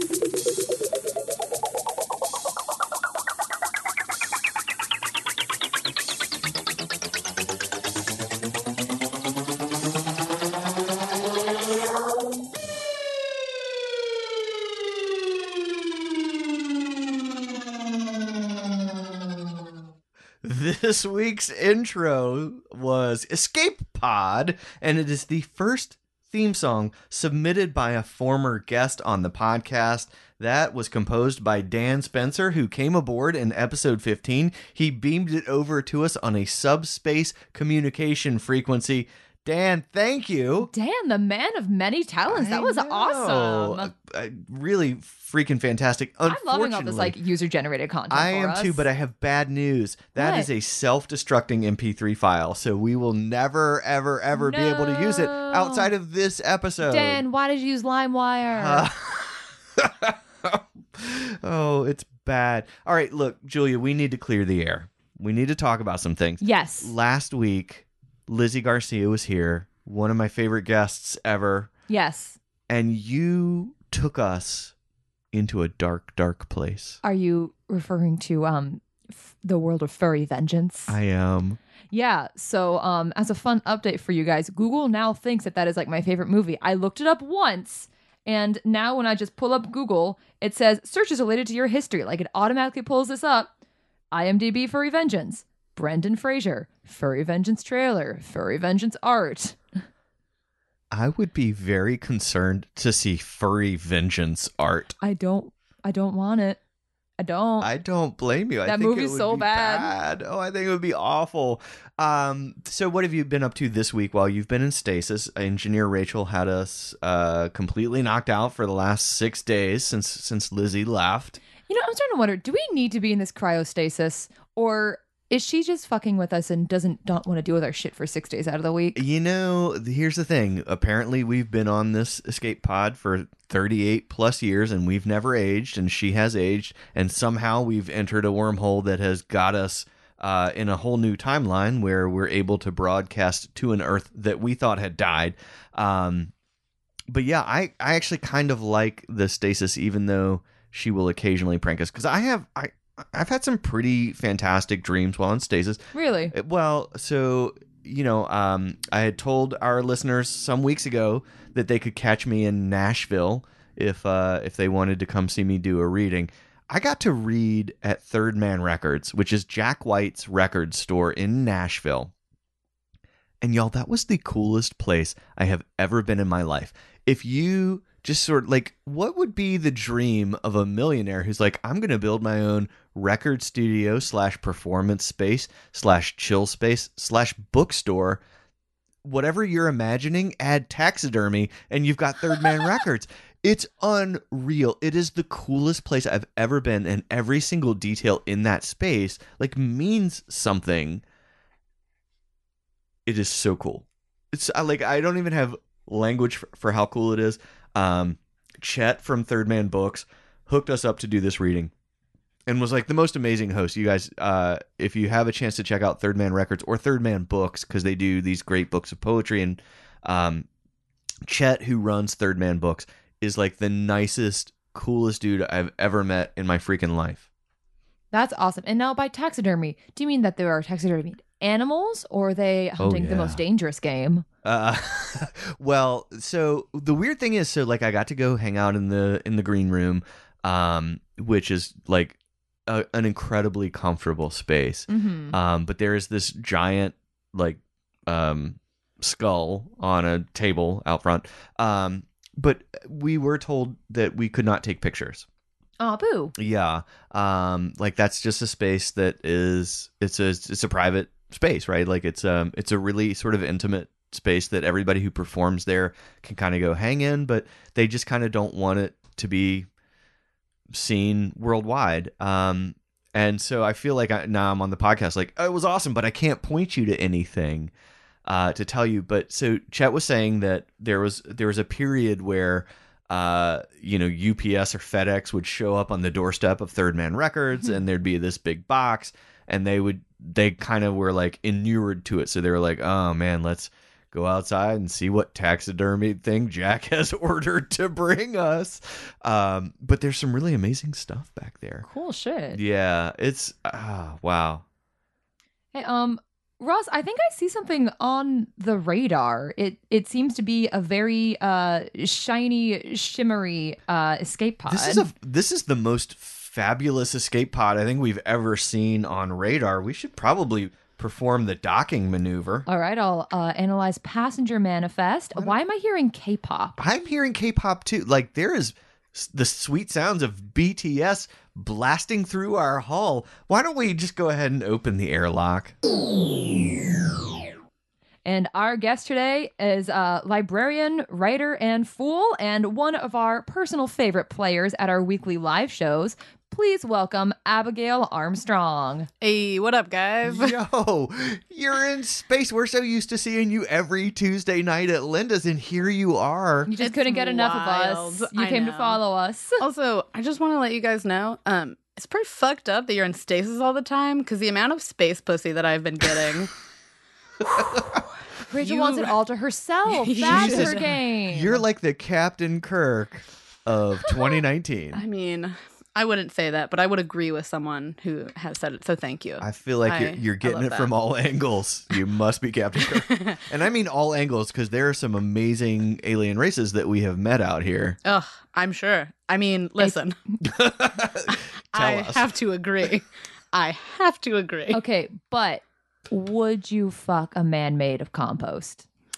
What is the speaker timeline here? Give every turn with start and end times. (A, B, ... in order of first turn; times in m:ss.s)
0:20.4-0:40.7 A
0:40.6-0:43.9 B
0:42.3-0:47.2 A
0:46.2-0:48.8 B
0:48.1-0:57.2 A
0:50.2-0:50.5 B
0:54.3-0:55.9 B
0:56.8-0:58.9 B
0:58.5-1:11.7 A
1:06.4-1:06.9 B
1:11.9-1:12.4 B
1:12.7-1:14.7 A
1:15.3-1:17.0 A
1:17.0-1:21.0 B
1:20.9-1:21.6 A
1:21.9-1:33.5 B
1:34.1-1:39.6 B
1:40.9-1:45.0 A
1:45.0-1:46.6 B
1:47.2-1:47.7 B
1:47.6-2:01.4 A
1:48.6-1:49.9 B
2:01.7-2:09.0 B
2:08.9-2:26.3 A
2:27.1-2:52.1 A
2:35.9-2:36.3 B
2:53.4-3:08.2 A
3:09.0-3:21.0 A
3:23.0-3:31.7 A
3:32.5-3:40.5 A
3:41.2-3:47.2 A
3:48.1-3:54.2 B
3:52.8-3:53.4 A
3:54.4-4:15.2 A
4:04.9-4:05.4 B
4:15.8-4:16.3 B
4:16.4-4:29.7 A
4:30.7-4:37.7 A
4:38.2-5:01.8 A
5:01.8-5:02.6 B
5:02.5-5:04.6 A
5:05.7-5:15.1 B
5:14.7-5:22.6 A
5:22.6-5:26.8 B
5:26.8-5:35.7 A
5:38.2-5:49.1 B
5:49.2-5:50.6 C
5:50.2-5:56.7 A
5:56.7-5:59.6 B
5:56.8-5:59.0 C
5:59.6-6:06.5 C
6:07.4-6:08.0 C
6:08.5-6:11.6 B
6:08.6-6:09.1 C
6:09.9-6:10.9 C
6:10.3-6:15.0 A
6:14.9-6:20.9 C
6:19.4-6:28.0 A
6:22.9-6:23.4 C
6:28.0-6:30.2 C
6:30.4-6:32.3 A
6:31.7-6:34.8 C
6:34.7-6:38.8 B